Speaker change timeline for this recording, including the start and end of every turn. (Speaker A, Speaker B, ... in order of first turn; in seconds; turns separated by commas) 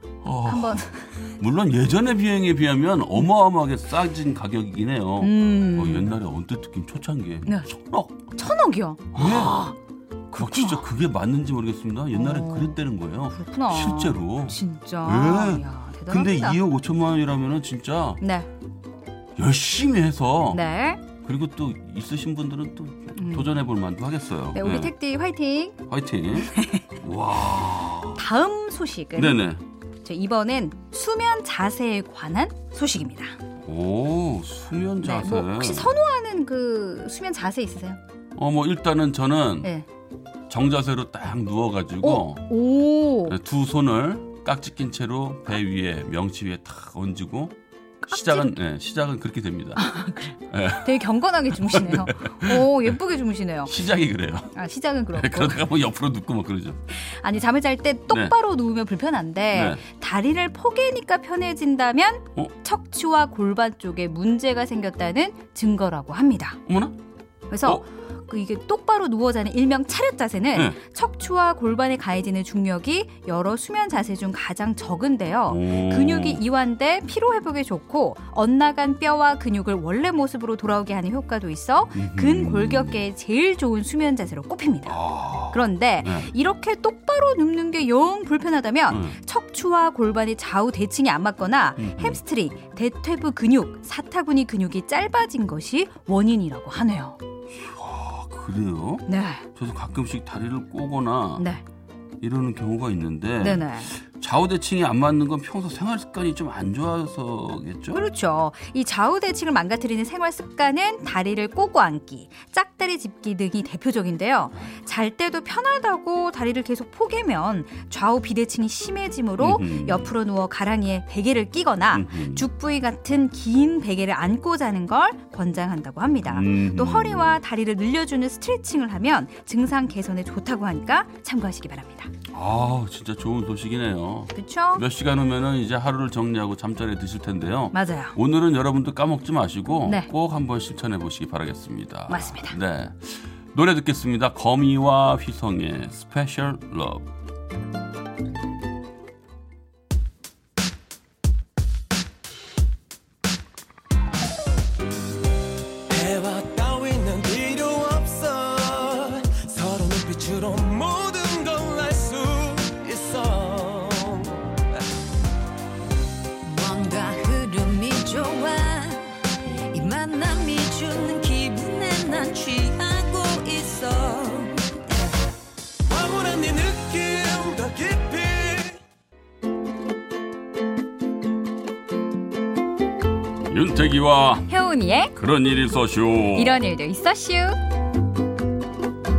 Speaker A: 0.2-8.2, Speaker B: 0.4-1.3, Speaker B: 5.2-6.1, Speaker B: 8.3-9.8, Speaker A: 9.1-9.7, Speaker B: 10.3-10.8, Speaker A: 10.3-18.2, Speaker B: 12.1-12.8, Speaker B: 13.3-16.6, Speaker B: 18.2-18.5, Speaker A: 19.4-20.6, Speaker B: 20.5-21.0, Speaker A: 21.1-24.9, Speaker B: 23.2-23.5, Speaker B: 24.5-25.8, Speaker A: 25.9-28.2, Speaker B: 26.5-26.9, Speaker B: 28.1-29.4, Speaker A: 29.2-29.6, Speaker B: 30.0-33.4, Speaker A: 33.6-36.0, Speaker B: 35.0-38.0, Speaker A: 38.4-39.7, Speaker A: 40.5-42.4, Speaker B: 42.0-43.4, Speaker A: 43.2-47.6, Speaker B: 48.1-48.5, Speaker A: 48.1-49.8, Speaker B: 49.8-53.7, Speaker A: 50.5-52.9, Speaker A: 53.7-54.5, Speaker B: 54.5-55.6, Speaker A: 55.1-56.8, Speaker B: 56.9-66.6, Speaker A: 58.1-58.4, Speaker A: 59.5-59.8, Speaker A: 66.7-67.0, Speaker B: 67.5-85.0, Speaker A: 75.5-76.4, Speaker A: 81.9-83.0, Speaker A: 84.9-86.3, Speaker B: 85.5-97.2, Speaker A: 88.9-89.2, Speaker A: 91.8-92.2, Speaker A: 97.5-101.5, Speaker B: 99.1-99.5, Speaker B: 101.4-101.6, Speaker A: 102.2-108.0, Speaker B: 103.4-103.9, Speaker B: 107.9-132.1, Speaker A: 119.4-120.1, Speaker A: 121.9-122.5, Speaker A: 126.2-127.4, Speaker A: 132.3-147.1, Speaker B: 134.3-134.8, Speaker B: 137.7-138.2, Speaker B: 142.1-142.6, Speaker C: 155.9-164.7, Speaker D: 166.4-169.2, Speaker D: 169.7-175.1, Speaker C: 175.9-178.8, Speaker A: 183.4-184.5, Speaker B: 184.5-185.1, Speaker A: 185.2-186.6, Speaker B: 186.3-187.6